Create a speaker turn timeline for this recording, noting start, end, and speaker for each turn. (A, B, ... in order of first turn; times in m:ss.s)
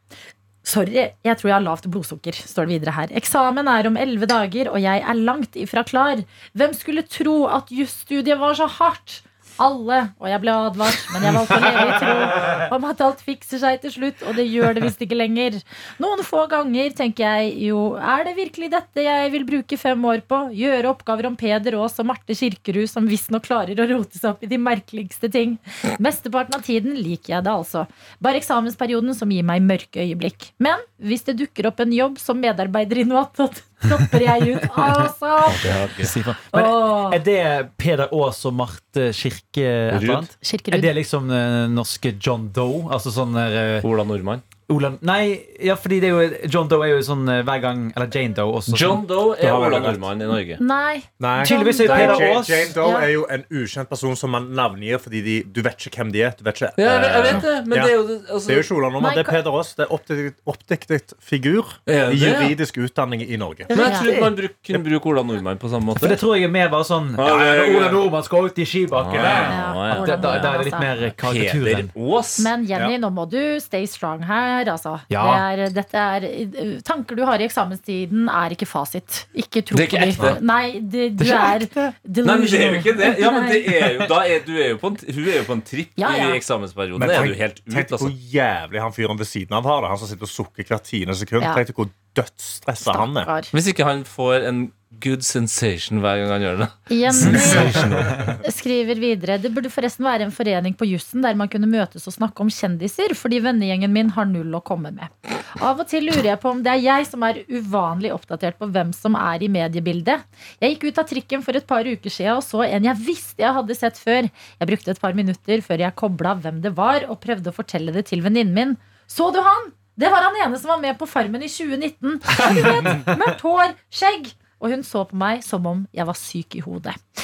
0:00.6-0:35.8 A
0:11.6-0:12.4 B
0:35.5-0:36.1 C
0:36.0-0:43.9 B
0:36.5-0:37.2 A
0:39.9-0:40.3 C
0:40.4-0:40.9 A
0:43.8-0:44.4 C
0:44.7-0:49.0 B
0:48.7-0:50.6 C
0:49.4-0:50.0 D
0:50.6-0:53.1 A
0:51.2-1:03.7 D
0:51.4-0:52.7 B
0:56.8-0:58.7 C
0:59.0-0:59.4 A
1:01.8-1:02.6 C
1:03.7-1:04.1 A
1:03.7-1:06.2 C
1:06.0-1:11.9 B
1:07.2-1:08.0 C
1:09.0-1:10.4 C
1:09.5-1:10.9 A
1:11.0-1:12.5 C
1:12.4-1:23.7 A
1:15.1-1:15.4 B
1:19.7-1:20.4 C
1:21.2-1:21.9 B
1:22.2-1:28.1 C
1:26.0-1:26.4 A
1:27.0-1:33.3 D
1:32.8-1:33.5 A
1:33.5-1:38.1 C
1:36.9-1:37.8 A
1:37.2-1:38.3 B
1:37.3-1:38.2 D
1:38.4-2:07.0 A